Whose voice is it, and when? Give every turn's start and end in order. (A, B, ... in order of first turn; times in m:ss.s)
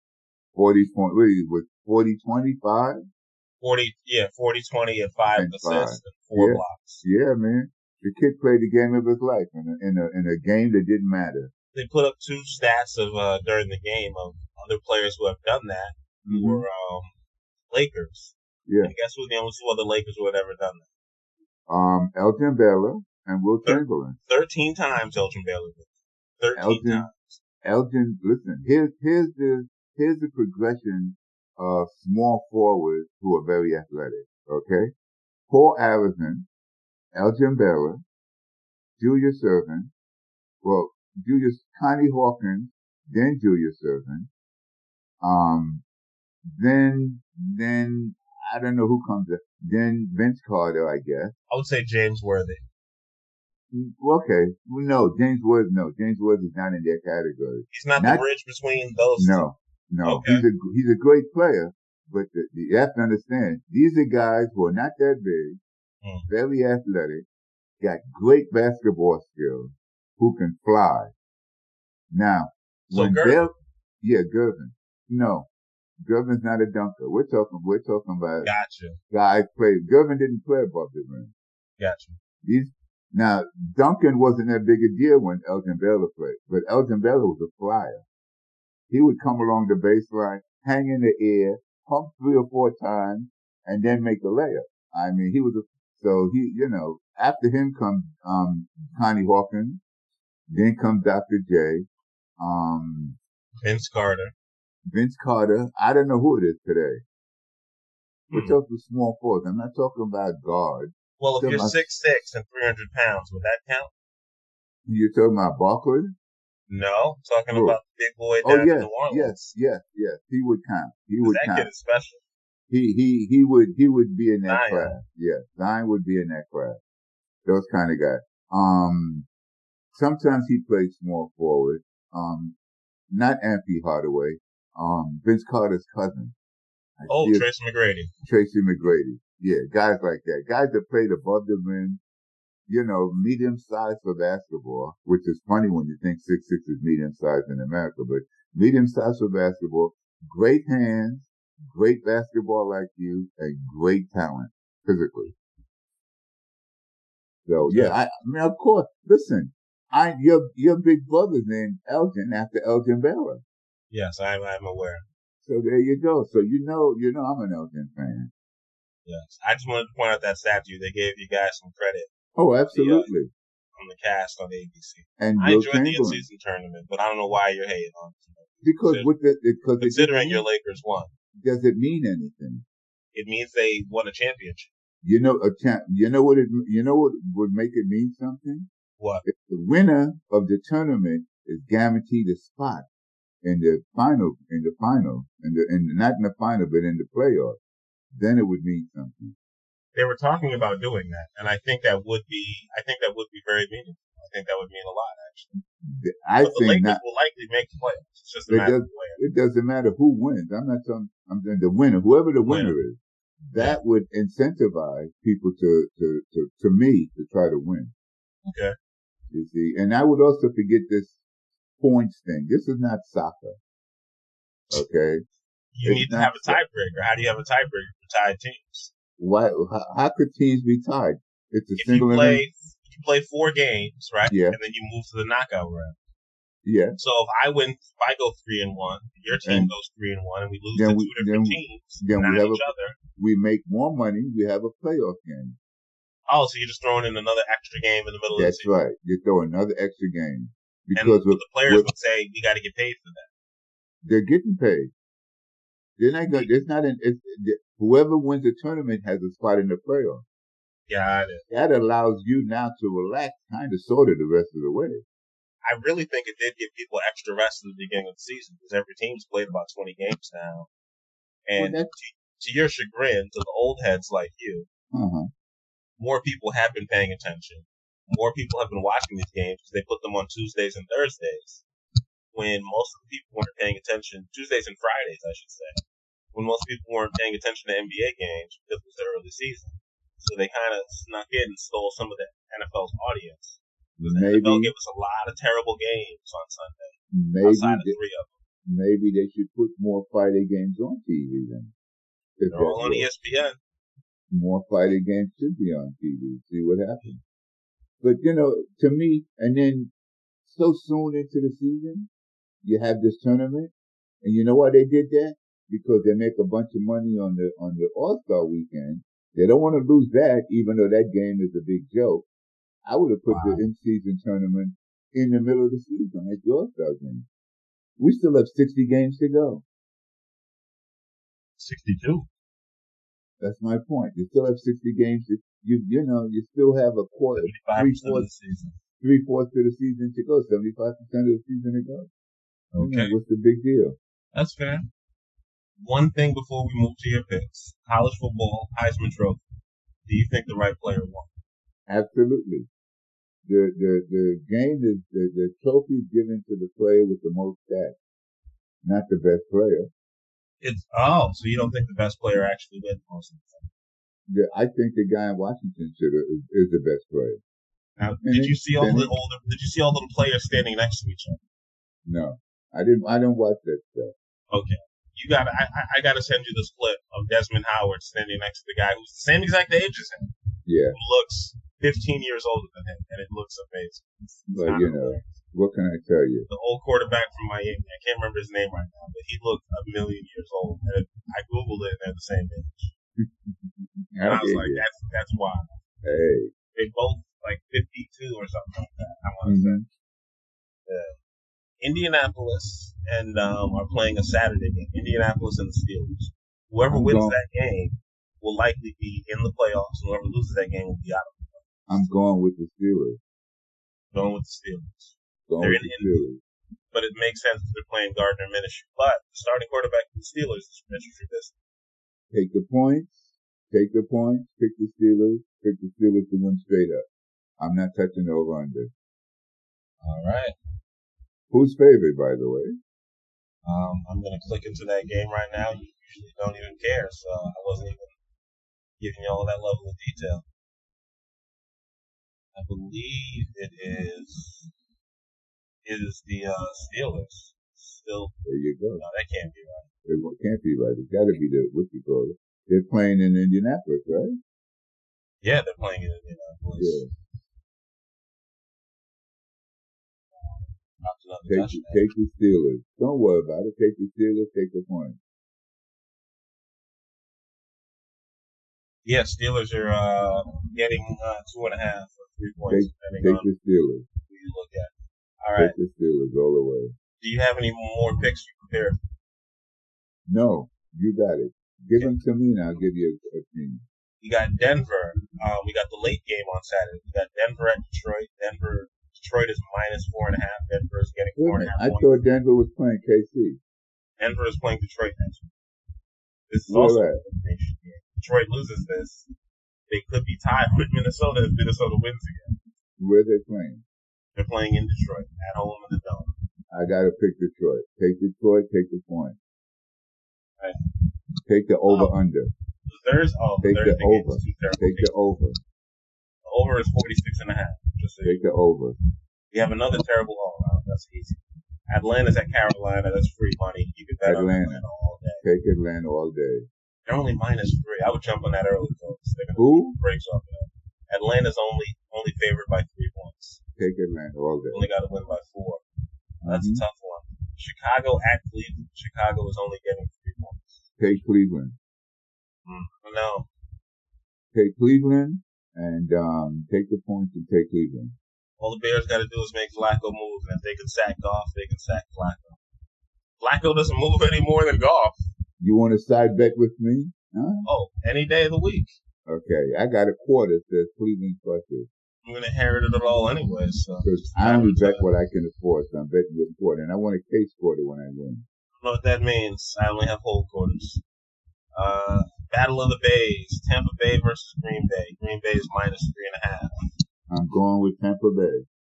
0:00.6-0:03.0 A
0:03.6-0:07.0 B
0:05.4-0:11.5 A
0:11.7-0:17.1 B
0:16.2-0:16.6 A
0:17.7-0:20.9 B
0:18.7-0:18.9 A
0:21.7-0:24.2 A
0:23.6-0:27.4 B
0:26.6-0:27.1 A
0:27.6-0:34.9 A
0:35.5-0:36.5 A
0:37.1-0:38.0 A
0:39.0-0:39.9 A
0:40.6-0:44.3 A
0:45.2-0:45.8 A
0:46.5-0:51.3 A
0:51.5-0:52.6 B
0:53.7-0:58.2 A
0:57.7-0:59.4 B
0:59.2-1:05.6 A
1:00.0-1:00.5 B
1:06.0-1:06.3 B
1:06.3-1:07.2 A
1:07.8-1:11.1 A
1:12.1-1:15.5 A
1:12.9-1:13.4 B
1:16.0-1:18.5 A
1:18.4-1:19.0 B
1:19.1-1:21.3 A
1:21.8-1:22.2 B
1:22.4-1:28.0 A
1:28.9-1:39.8 A
1:40.5-1:41.9 A
1:42.4-1:43.2 A
1:43.6-1:44.3 B
1:44.9-1:47.0 A
1:48.3-1:48.6 B
1:48.3-1:51.8 A
1:51.2-1:53.9 B
1:54.9-1:56.1 A
1:56.7-1:59.5 B
1:57.5-1:57.8 A
1:58.4-2:01.7 A
2:01.2-2:02.2 B
2:02.7-2:06.8 A
2:04.5-2:05.0 B
2:07.4-2:09.3 A
2:09.9-2:12.6 A
2:13.1-2:16.4 A
2:17.0-2:17.5 A
2:17.1-2:18.1 B
2:18.2-2:22.0 A
2:22.7-2:35.4 A
2:37.5-2:43.4 A
2:37.6-2:38.0 B
2:43.9-2:45.1 B
2:45.4-2:48.3 A
2:49.1-2:52.1 B
2:52.4-2:53.3 A
2:52.7-2:53.1 B
2:53.8-2:59.1 B
2:55.2-2:56.3 A
2:58.6-3:00.5 A
2:59.8-3:01.1 B
3:01.4-3:02.6 A
3:03.1-3:04.7 B
3:05.0-3:08.7 A
3:09.0-3:09.3 B
3:09.2-3:12.9 A
3:13.4-3:17.6 A
3:18.1-3:19.4 A
3:20.0-3:25.5 B
3:25.8-3:27.0 A
3:26.4-3:29.2 B
3:28.5-3:37.9 A
3:32.4-3:32.8 B
3:38.4-3:38.8 B
3:39.3-3:41.2 A
3:41.8-3:43.6 A
3:44.7-3:45.2 A
3:45.7-3:48.9 B
3:45.8-3:46.6 A
3:49.2-3:52.4 A
3:51.8-3:56.0 B
3:54.3-3:54.6 A
3:56.6-3:57.0 A
3:57.0-4:03.0 B
3:59.4-3:59.7 A
4:00.7-4:02.6 A
4:03.2-4:05.6 A
4:06.3-4:08.8 B
4:08.4-4:11.9 A
4:11.0-4:13.3 B
4:14.0-4:14.9 A
4:16.0-4:20.2 A
4:20.9-4:21.5 B
4:21.5-4:25.0 A
4:25.6-4:30.7 B
4:31.4-4:34.7 B
4:31.6-4:31.9 A
4:34.9-4:35.3 A
4:36.0-4:41.6 B
4:42.3-4:45.8 B
4:46.3-4:58.4 B
4:54.0-4:54.7 A
4:57.1-4:58.0 A
4:58.6-5:01.7 A
5:02.4-5:03.1 A
5:02.5-5:03.6 B
5:04.3-5:07.2 A
5:08.0-5:09.9 A
5:10.5-5:12.1 A
5:12.6-5:22.3 A
5:22.9-5:27.3 A
5:23.3-5:23.6 B
5:28.0-5:29.6 A
5:31.6-5:32.3 B
5:33.4-5:38.3 A
5:37.4-5:38.8 B
5:39.0-5:42.1 A
5:42.7-5:43.2 B
5:42.8-5:44.0 A
5:44.3-5:44.9 B
5:45.8-5:49.4 B
5:50.1-5:51.3 B
5:51.9-5:52.7 A
5:53.4-5:58.0 A
5:58.8-5:59.9 A
6:00.6-6:03.7 B
6:04.3-6:07.4 A
6:08.0-6:11.4 B
6:08.2-6:09.1 A
6:12.0-6:14.1 A
6:14.5-6:20.3 B
6:20.7-6:21.0 A
6:20.9-6:25.4 B
6:24.5-6:26.5 A
6:26.5-6:32.9 B
6:33.2-6:34.8 A
6:34.2-6:35.8 B
6:36.0-6:36.5 A
6:36.8-6:39.8 B
6:39.4-6:39.8 A
6:40.9-6:41.2 B
6:41.8-6:52.0 B
6:46.9-6:47.4 A
6:51.9-6:53.2 A
6:54.1-6:56.3 B
6:55.5-6:56.4 A
6:56.9-7:01.6 B
7:02.3-7:07.0 A
7:07.6-7:08.9 A
7:10.0-7:10.6 B
7:11.5-7:12.8 A
7:13.6-7:18.2 B
7:19.0-7:20.5 B
7:22.6-7:24.7 B
7:25.8-7:28.4 B
7:28.4-7:29.0 A
7:29.0-7:29.9 B
7:30.1-7:34.4 A
7:35.4-7:37.0 B
7:36.8-7:37.1 A
7:40.4-7:42.1 B
7:41.5-7:45.2 A
7:49.0-7:53.5 B
7:52.7-7:54.1 A
7:54.3-7:55.8 B
7:55.6-7:57.0 A
7:57.2-7:59.0 B
8:00.3-8:03.8 A
8:04.2-8:12.2 B
8:11.4-8:13.6 A
8:14.2-8:15.5 B
8:16.5-8:19.3 B
8:16.7-8:17.2 A
8:19.9-8:22.6 B
8:23.0-8:23.8 A
8:24.4-8:26.4 B
8:26.7-8:29.4 A
8:30.6-8:30.9 B
8:31.4-8:32.5 A
8:31.9-8:32.1 B
8:32.9-8:35.1 B
8:33.6-8:35.6 A
8:36.4-8:38.5 B
8:38.2-8:39.0 A
8:39.5-8:45.4 B
8:44.2-8:44.8 A
8:45.4-8:46.7 A
8:47.1-8:53.6 B
8:49.6-8:50.0 A
8:53.8-8:54.9 A
8:54.7-8:55.8 B
8:56.4-8:56.8 A
8:56.5-9:00.9 B
9:01.0-9:01.8 A
9:02.7-9:03.5 B
9:04.5-9:08.2 A
9:08.6-9:12.6 B
9:13.4-9:15.3 B
9:15.6-9:17.7 A
9:17.6-9:19.0 B
9:19.3-9:21.9 A
9:22.2-9:25.1 B
9:24.0-9:28.4 A
9:28.8-9:31.0 B
9:31.8-9:36.8 B
9:37.3-9:38.7 A